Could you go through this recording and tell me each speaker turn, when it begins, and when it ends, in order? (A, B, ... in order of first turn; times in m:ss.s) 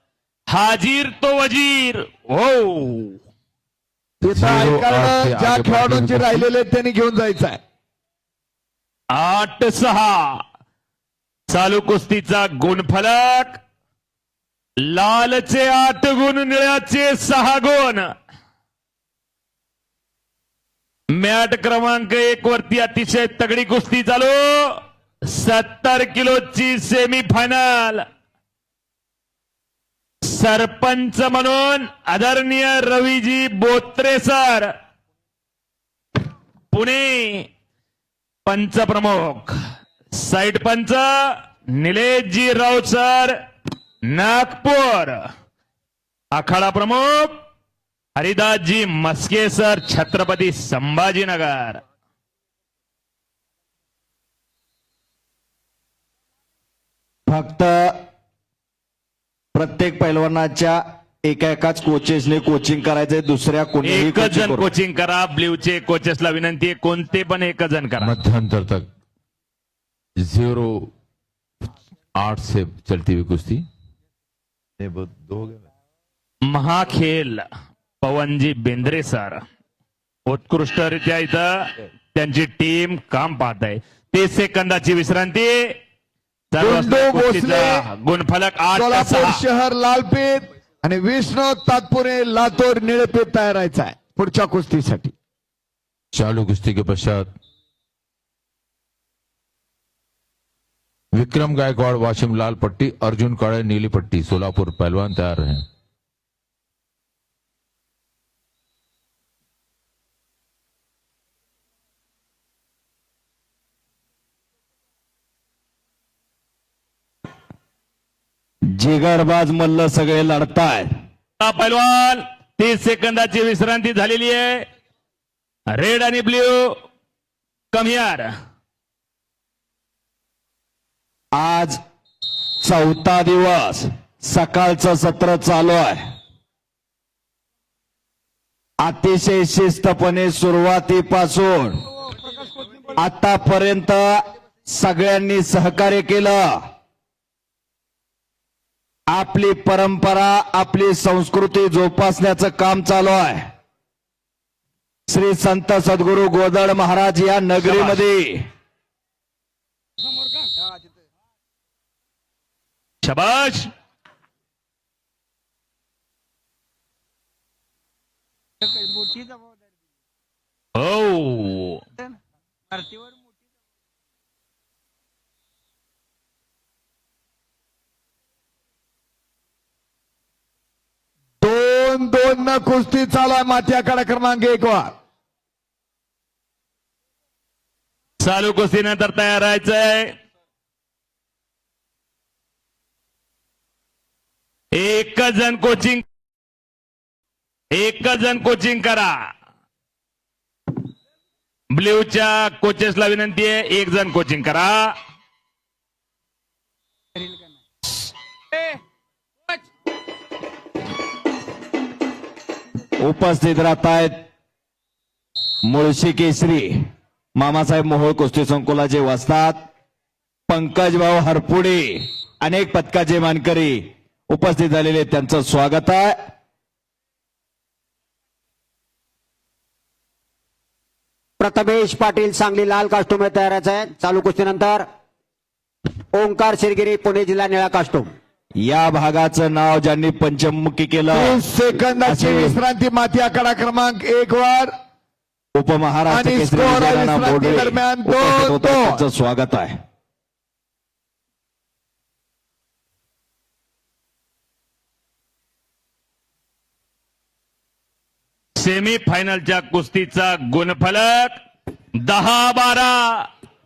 0:00.5-0:03.2 A
0:04.2-0:07.6 B
0:04.2-0:06.5 C
0:09.1-0:10.4 A
0:11.5-0:13.6 A
0:14.8-0:18.1 A
0:21.1-0:28.0 A
0:30.2-0:34.7 A
0:36.7-0:37.5 A
0:38.5-0:39.5 A
0:40.1-0:43.4 A
0:44.1-0:45.2 A
0:46.3-0:47.4 A
0:48.2-0:51.8 A
0:57.3-0:58.0 D
0:59.5-1:04.7 D
1:03.8-1:08.2 A
1:08.0-1:08.9 C
1:10.2-1:10.9 C
1:12.2-1:13.7 C
1:14.8-1:15.6 C
1:16.5-1:17.5 A
1:18.0-1:19.4 A
1:20.3-1:25.7 A
1:26.5-1:29.4 A
1:26.6-1:27.8 B
1:28.7-1:35.1 B
1:36.1-1:37.3 C
1:41.1-1:45.6 C
1:58.7-2:00.9 D
2:01.4-2:04.6 A
2:05.7-2:06.8 A
2:07.7-2:08.3 A
2:11.3-2:11.8 D
2:12.6-2:16.0 D
2:18.8-2:21.8 D
2:23.0-2:26.6 D
2:29.1-2:33.5 D
2:35.1-2:38.4 D
2:37.6-2:38.0 A
2:43.0-2:43.7 A
2:50.8-2:51.8 A
3:01.4-3:04.9 B
3:08.2-3:10.1 A
3:14.7-3:16.0 A
3:17.7-3:19.2 A
3:21.7-3:24.9 A
3:33.0-3:34.2 D
3:35.6-3:39.7 D
3:40.5-3:46.2 D
3:51.4-3:54.9 E
3:56.1-3:58.1 E
3:58.6-4:01.4 D
4:01.1-4:04.7 B
4:02.0-4:02.6 D
4:05.6-4:09.8 D
4:06.1-4:09.0 B
4:18.6-4:21.4 A
4:22.0-4:23.3 A